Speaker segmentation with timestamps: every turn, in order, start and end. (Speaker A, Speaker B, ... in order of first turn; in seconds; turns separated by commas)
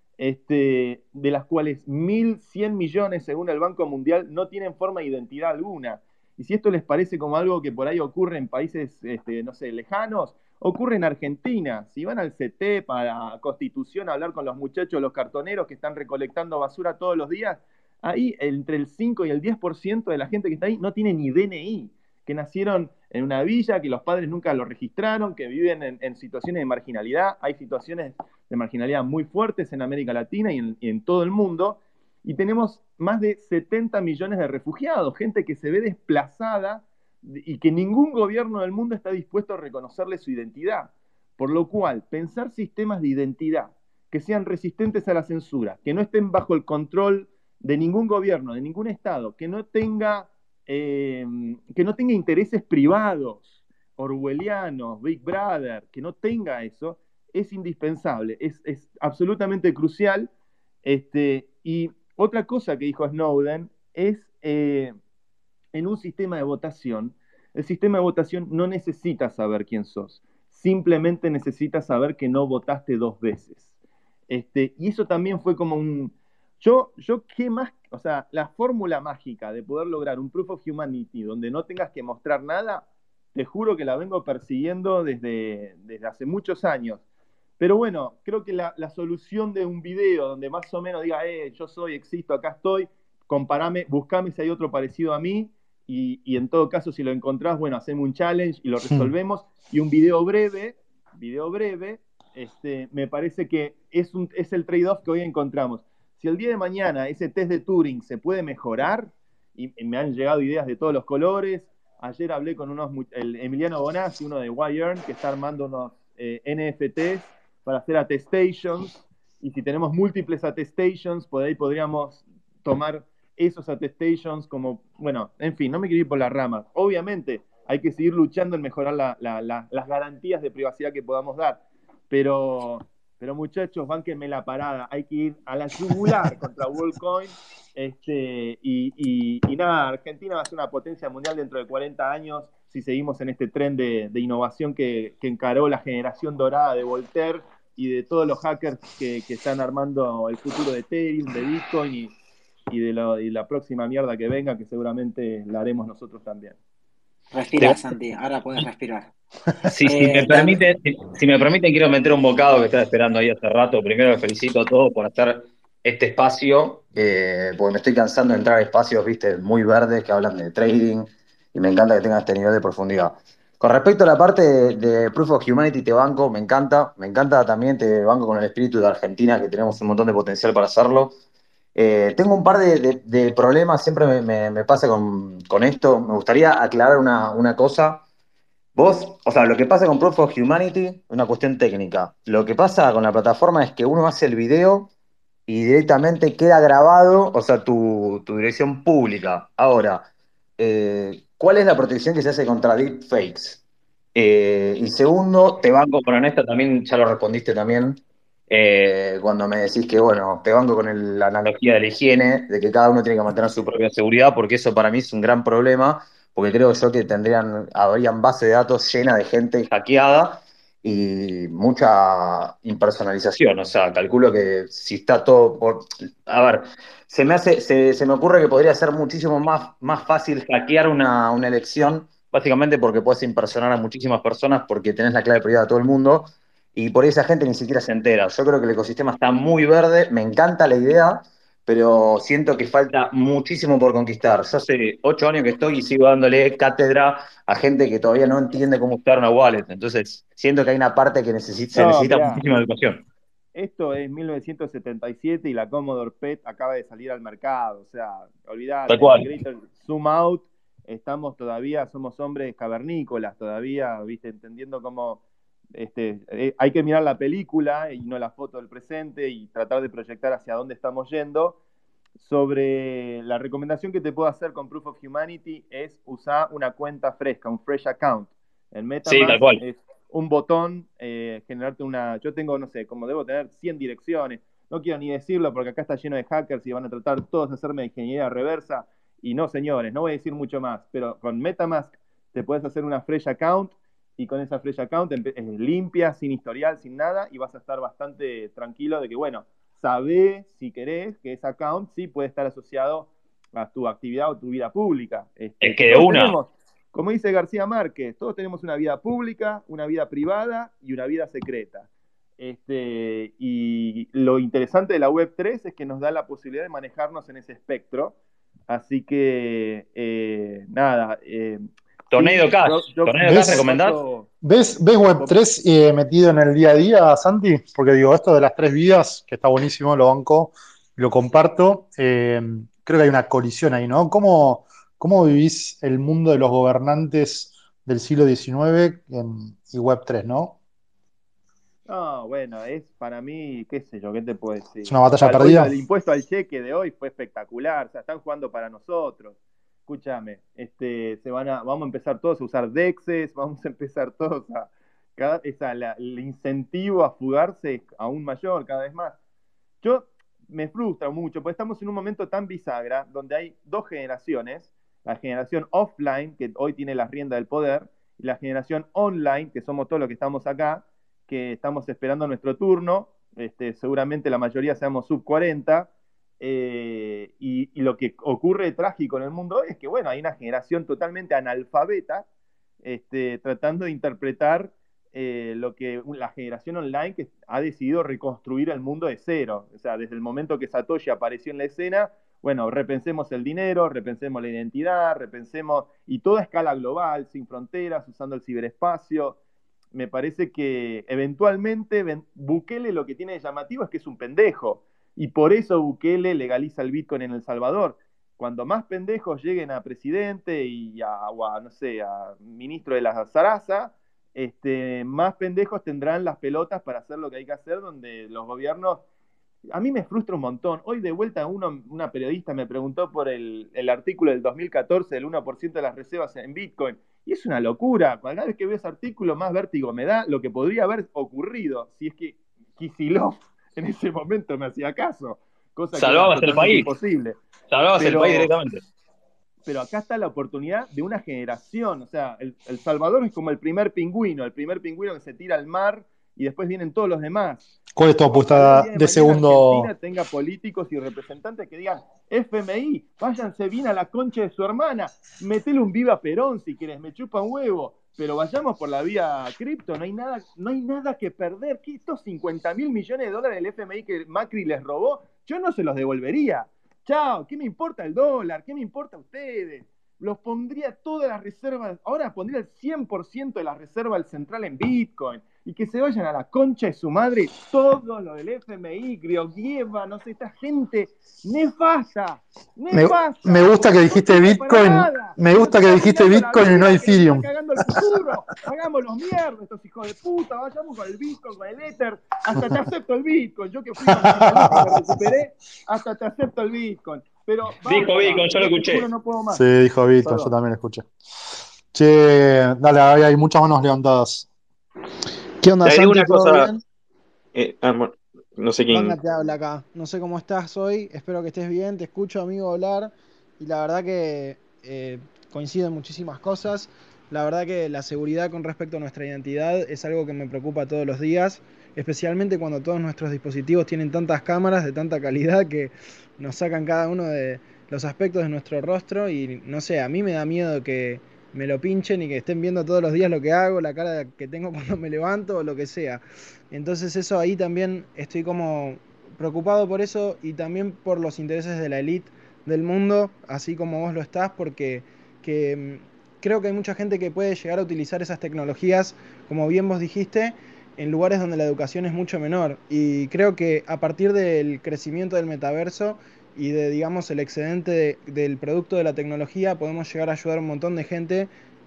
Speaker A: 0.2-60.3, Speaker A: 60.8-64.9, Speaker A: 65.7-73.7, Speaker A: 74.3-87.0, Speaker A: 87.6-152.1, Speaker A: 152.7-156.6, Speaker B: 157.3-159.1, Speaker C: 159.7-181.1, Speaker B: 159.8-160.6, Speaker C: 181.7-188.0, Speaker C: 188.7-194.9, Speaker C: 195.5-200.0, Speaker C: 200.6-203.6, Speaker C: 204.1-253.0, Speaker A: 251.7-252.4, Speaker A: 253.5-265.2, Speaker C: 258.9-259.3, Speaker A: 265.7-271.6, Speaker A: 272.2-311.9, Speaker C: 279.0-279.6, Speaker C: 305.6-306.4, Speaker A: 312.4-318.1, Speaker A: 318.7-324.3, Speaker C: 322.1-324.0, Speaker D: 323.2-323.6, Speaker D: 324.4-340.6, Speaker A: 341.9-359.2, Speaker D: 344.9-345.8, Speaker A: 359.8-382.2, Speaker A: 382.8-399.4, Speaker A: 399.9-419.0, Speaker A: 419.7-437.4, Speaker C: 435.9-436.9, Speaker C: 437.7-438.8, Speaker A: 437.9-438.5, Speaker A: 439.6-447.7, Speaker D: 447.9-449.9, Speaker A: 448.3-499.7, Speaker D: 482.9-488.2, Speaker D: 494.1-495.3, Speaker D: 499.5-501.0, Speaker A: 500.2-500.5, Speaker D: 501.9-504.5, Speaker E: 505.6-506.7, Speaker F: 505.8-506.7, Speaker F: 507.5-509.1, Speaker E: 508.9-561.5